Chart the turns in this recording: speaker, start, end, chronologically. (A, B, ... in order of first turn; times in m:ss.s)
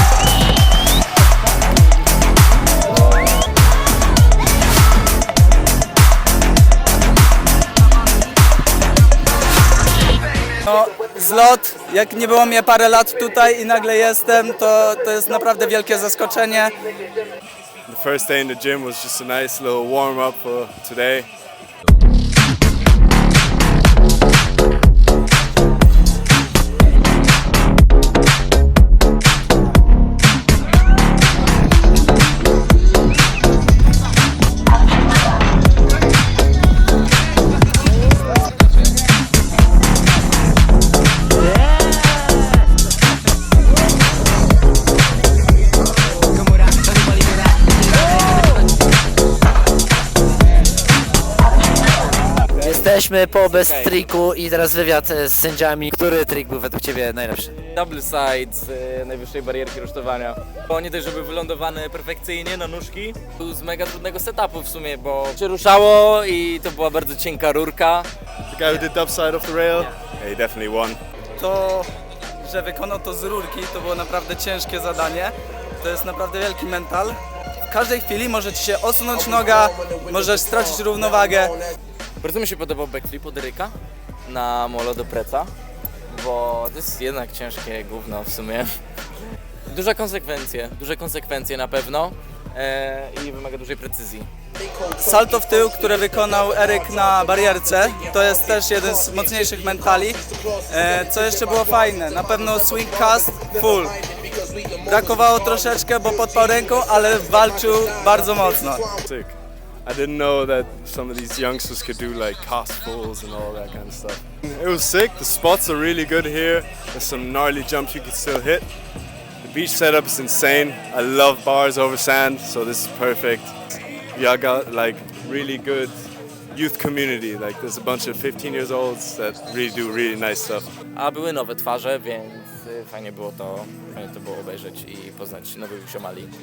0:10.7-0:16.8 A
0:17.9-0:21.3 B
0:52.6-0:57.6 C
0:53.4-0:54.1 D
0:57.7-1:08.1 D
1:08.5-1:11.0 B
1:11.4-1:17.2 A
1:17.7-1:21.6 A
1:22.2-1:25.5 D
1:26.1-1:28.7 D
1:29.7-1:34.3 D
1:35.0-1:44.0 A
1:44.8-1:48.8 A
1:49.0-1:58.7 B
1:59.4-2:03.6 B
2:04.1-2:10.7 B
2:11.0-2:16.3 D